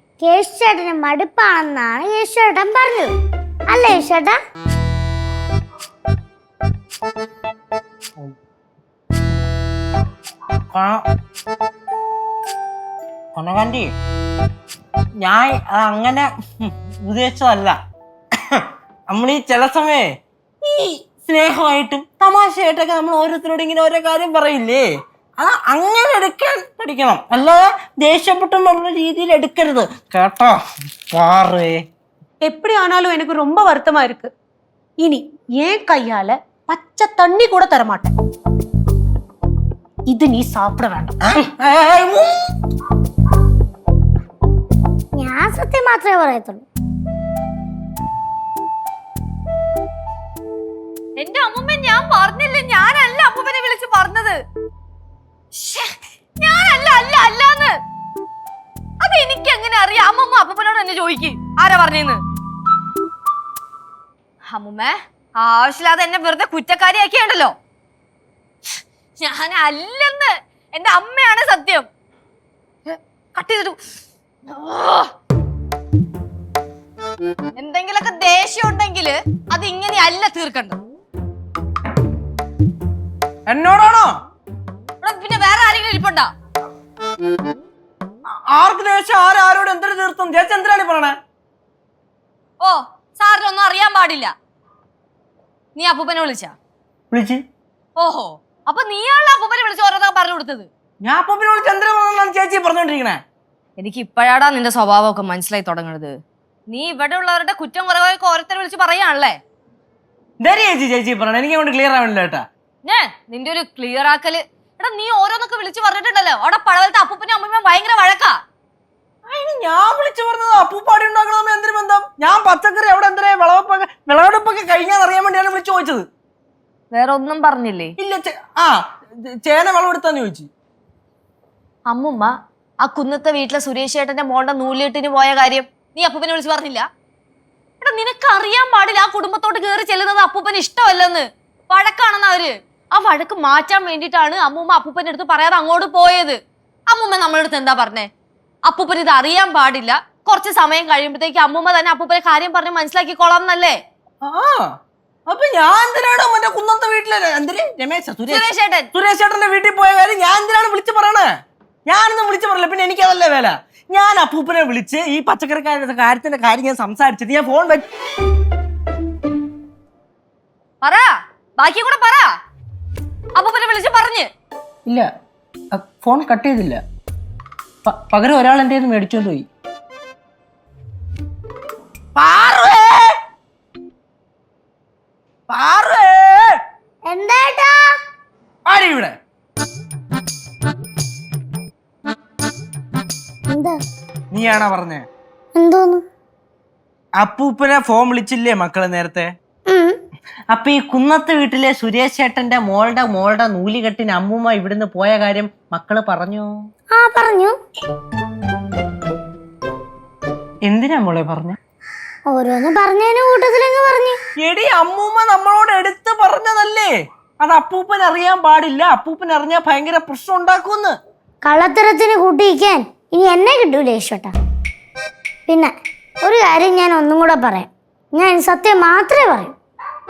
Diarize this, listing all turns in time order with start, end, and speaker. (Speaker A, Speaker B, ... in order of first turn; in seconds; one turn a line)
Speaker A: 0.2-3.1
Speaker A: 3.7-4.4
Speaker B: 10.7-11.0
Speaker B: 13.3-13.9
Speaker B: 15.2-17.8
Speaker B: 18.5-20.1
Speaker B: 20.7-24.9
Speaker B: 25.4-30.6
Speaker B: 31.1-31.8
Speaker C: 32.4-34.3
Speaker C: 35.0-38.1
Speaker C: 40.1-41.1
Speaker B: 41.2-42.4
Speaker A: 45.2-46.7
Speaker D: 51.2-54.4
Speaker D: 55.5-55.9
Speaker D: 56.4-57.8
Speaker D: 59.0-62.2
Speaker D: 64.5-67.5
Speaker D: 69.2-71.9
Speaker D: 72.9-73.8
Speaker D: 74.5-75.1
Speaker D: 77.6-80.8
Speaker B: 83.5-84.1
Speaker D: 85.0-86.3
Speaker B: 88.5-91.2
Speaker D: 92.6-94.3
Speaker D: 95.8-96.5
Speaker B: 97.1-97.4
Speaker D: 98.0-100.7
Speaker B: 101.0-103.2
Speaker D: 103.8-106.2
Speaker D: 106.7-109.4
Speaker B: 110.4-112.4
Speaker D: 112.8-118.4
Speaker B: 119.3-126.0
Speaker D: 126.9-127.9
Speaker B: 128.0-128.7
Speaker B: 129.3-130.5
Speaker D: 131.9-136.9
Speaker D: 137.8-146.4
Speaker D: 146.9-148.1
Speaker D: 148.7-153.8
Speaker B: 154.2-154.7
Speaker B: 155.3-161.3
Speaker D: 158.3-158.9
Speaker B: 161.9-167.8
Speaker D: 170.8-172.3
Speaker D: 173.4-174.3
Speaker B: 175.8-176.8
Speaker B: 177.8-179.4
Speaker B: 182.2-183.1
Speaker B: 185.5-186.4
Speaker A: 187.1-187.8
Speaker B: 188.7-189.1
Speaker A: 193.5-193.8
Speaker B: 194.3-195.0
Speaker A: 195.6-196.0
Speaker B: 197.2-199.3
Speaker A: 199.7-200.0
Speaker B: 200.5-206.5
Speaker A: 207.0-207.6
Speaker B: 210.7-211.6
Speaker A: 212.3-214.2
Speaker B: 214.4-216.9
Speaker B: 217.4-220.9
Speaker A: 221.4-224.3
Speaker A: 226.2-229.5